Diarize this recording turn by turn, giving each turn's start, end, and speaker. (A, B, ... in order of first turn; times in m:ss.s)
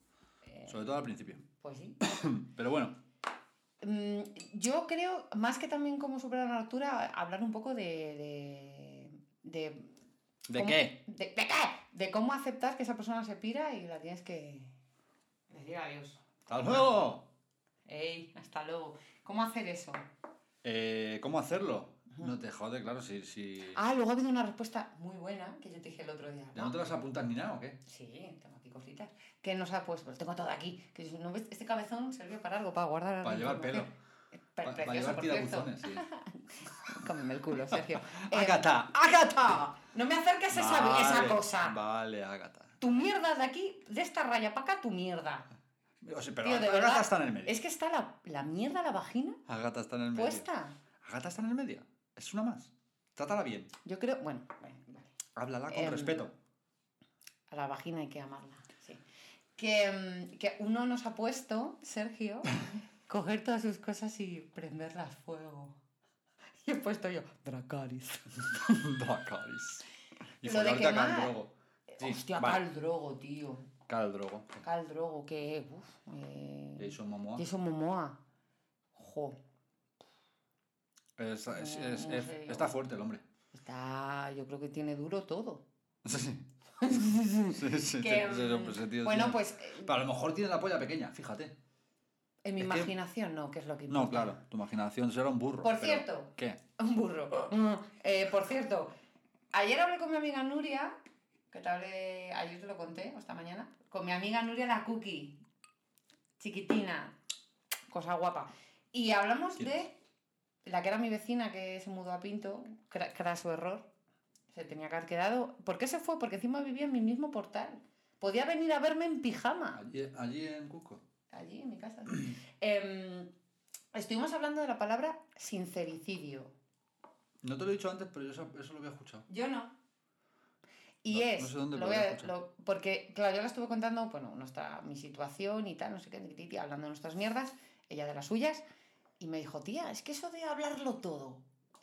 0:00.7-0:01.4 A
0:01.5-0:02.0 B
0:02.0-0:03.0 A
0:03.8-0:09.9 B
0:10.5-0:11.0 A
0:10.5-0:14.7 B
0:15.5-0:17.0 B
0:16.5-0:17.2 A
0:17.9-0:20.1 B
0:20.6-0:23.8 A
0:23.7-0:26.8 B
0:26.5-0:27.8 A
0:27.8-0:33.9 B
0:33.2-0:33.9 A
0:34.6-0:38.7 B
0:34.6-0:36.0 A
0:37.7-0:39.8 A
0:39.8-0:41.8 B
0:40.5-0:42.9 A
0:42.8-0:45.4 B
0:46.0-0:47.6 A
0:46.4-0:49.4 B
0:49.5-0:50.5 A
0:50.1-0:50.8 B
0:51.0-0:53.7 A
0:53.8-0:55.1 B
0:55.4-0:56.4 A
0:55.7-0:56.2 B
0:57.5-0:59.0 B
0:59.6-1:05.8 B
1:06.6-1:08.3 B
1:08.4-1:09.9 A
1:10.4-1:12.6 A
1:10.4-1:11.4 B
1:11.9-1:13.7 B
1:13.9-1:14.6 A
1:14.6-1:18.2 B
1:16.8-1:17.4 A
1:18.9-1:19.4 B
1:21.2-1:23.2 A
1:21.5-1:22.7 B
1:23.5-1:25.6 B
1:26.0-1:31.5 A
1:26.8-1:29.9 B
1:32.4-1:34.4 B
1:32.6-1:32.9 A
1:33.9-1:36.6 A
1:35.6-1:38.9 B
1:39.5-1:40.9 B
1:41.5-1:45.4 B
1:46.4-1:47.2 B
1:47.9-1:50.0 B
1:50.6-1:53.9 B
1:54.5-1:59.8 B
1:59.7-2:01.0 A
2:01.3-2:03.3 B
2:03.9-2:06.5 B
2:07.4-2:09.2 A
2:09.3-2:09.7 B
2:11.0-2:18.6 B
2:11.1-2:12.3 A
2:19.2-2:21.4 B